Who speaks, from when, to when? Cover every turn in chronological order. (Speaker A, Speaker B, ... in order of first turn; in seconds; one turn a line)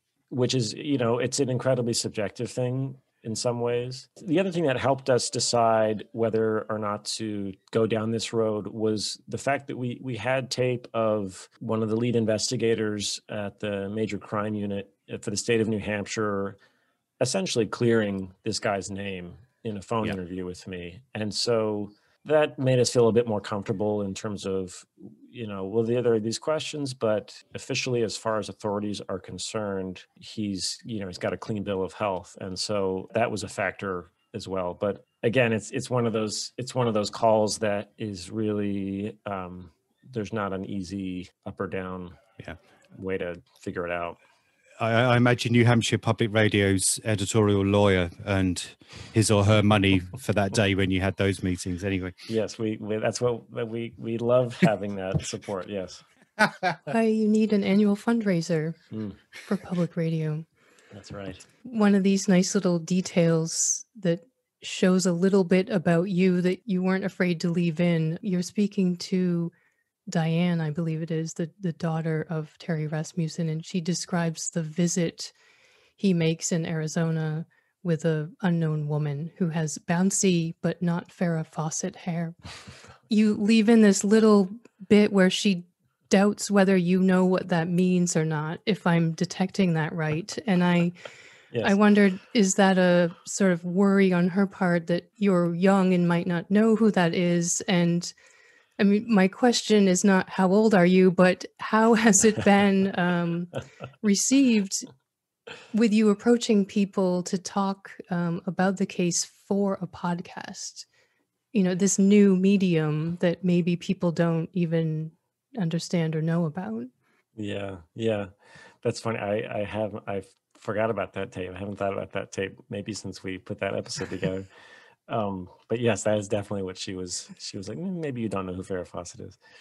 Speaker A: 0.3-16.6
Speaker A: 17.2-42.2
Speaker A: 42.9-44.2
Speaker B: 44.8-52.1
Speaker A: 52.3-56.0
Speaker B: 56.4-56.7
Speaker C: 56.9-58.8
Speaker A: 58.9-59.2
Speaker C: 59.4-60.4
Speaker A: 60.9-61.4
Speaker C: 61.6-69.5
Speaker C: 70.1-75.3
Speaker C: 76.0-82.4
Speaker C: 83.1-91.0
Speaker C: 91.6-98.1
Speaker C: 98.8-104.8
Speaker C: 105.7-110.8
Speaker C: 111.5-116.9
Speaker A: 117.3-118.3
Speaker A: 118.8-124.5
Speaker A: 125.1-129.4